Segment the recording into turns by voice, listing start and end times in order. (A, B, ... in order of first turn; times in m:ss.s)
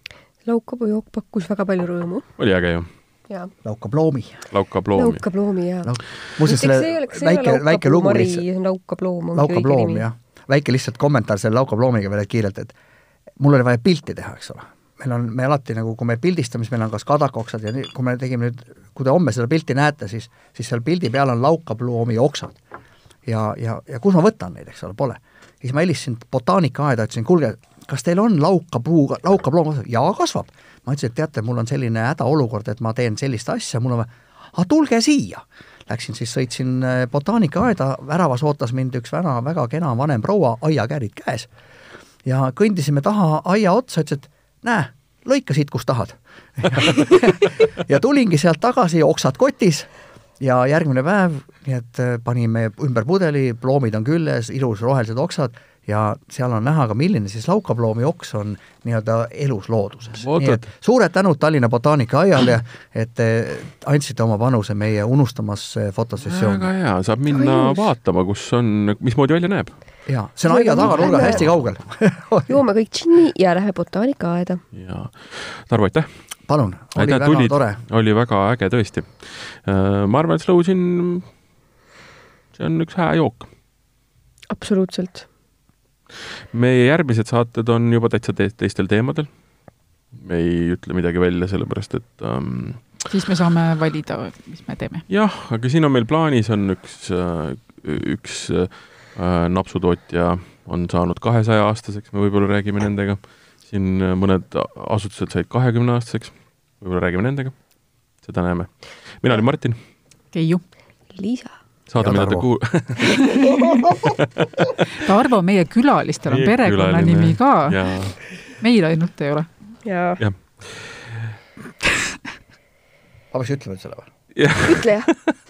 0:00.4-0:02.3 A
0:02.4-0:02.9 B
0:03.6-0:04.4 C
0:04.5-0:05.2 B
0:04.9-0:10.0 A
0:05.8-0:08.4 C
0:09.3-0:12.7 C
0:13.4-0:22.6 C
0:23.2-0:41.5 C
0:42.2-1:06.7 C
1:00.1-1:00.6 B
1:06.2-1:09.8 B
1:07.3-1:07.8 A
1:10.1-1:12.6 C
1:10.5-1:11.5 A
1:10.9-1:11.6 B
1:12.5-1:14.6 A
1:14.7-1:16.1 B
1:16.5-1:17.8 C
1:16.9-1:21.3 B
1:22.5-1:23.5 B
1:24.5-1:25.3 A
1:26.5-1:29.4 B
1:30.1-1:33.0 B
1:33.1-1:35.0 D
1:35.1-1:49.8 B
1:50.3-1:50.6 D
1:51.1-1:51.6 A
1:51.9-1:53.4 B
1:52.0-1:52.5 C
1:53.4-1:53.8 D
1:54.9-1:59.5 D
1:56.3-1:58.2 B
1:59.8-2:00.2 A
2:00.2-2:01.3 B
2:03.3-2:04.1 C
2:04.3-2:05.3 B
2:04.6-2:05.1 A